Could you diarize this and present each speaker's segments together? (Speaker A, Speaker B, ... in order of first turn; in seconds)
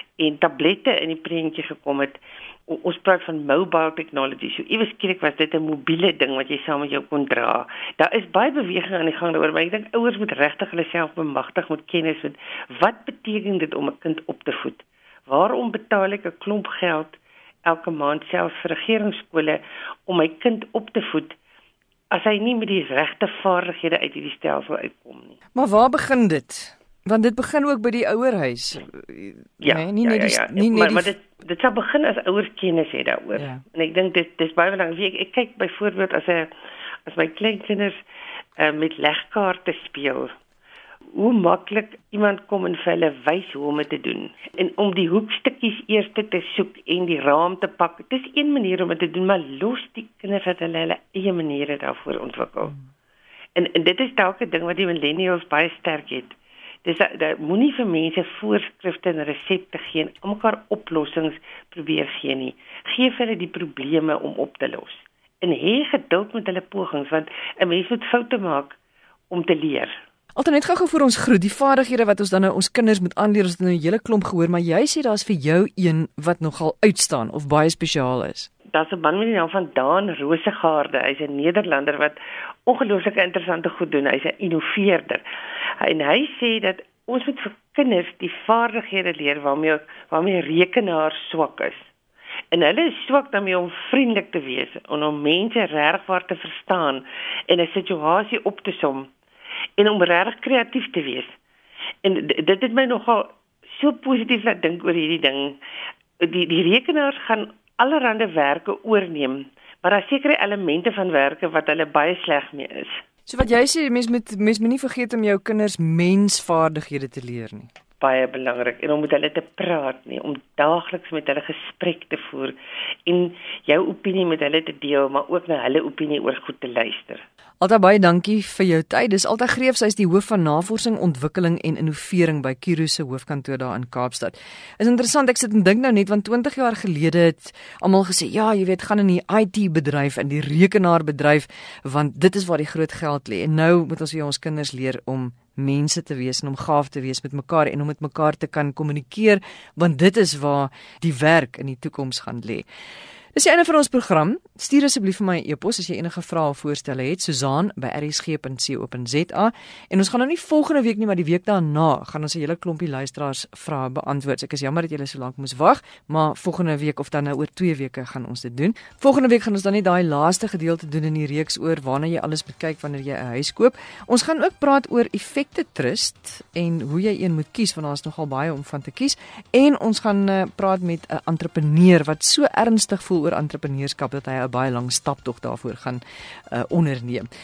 Speaker A: 0.2-21.4, 22.1-25.4, 29.6-36.5, 37.0-38.0, 38.6-40.3, 41.1-52.7, 53.5-68.8, 69.3-69.9, 78.7-85.2, 85.8-91.9, 92.5-99.1, 99.8-101.3, 102.0-105.6, 106.2-113.0, 118.0-122.5, 123.0-127.2
Speaker B: 25.5-31.1, 33.3-33.6, 70.3-78.5, 113.3-117.7, 127.6-152.6, 153.3-186.0, 186.5-187.3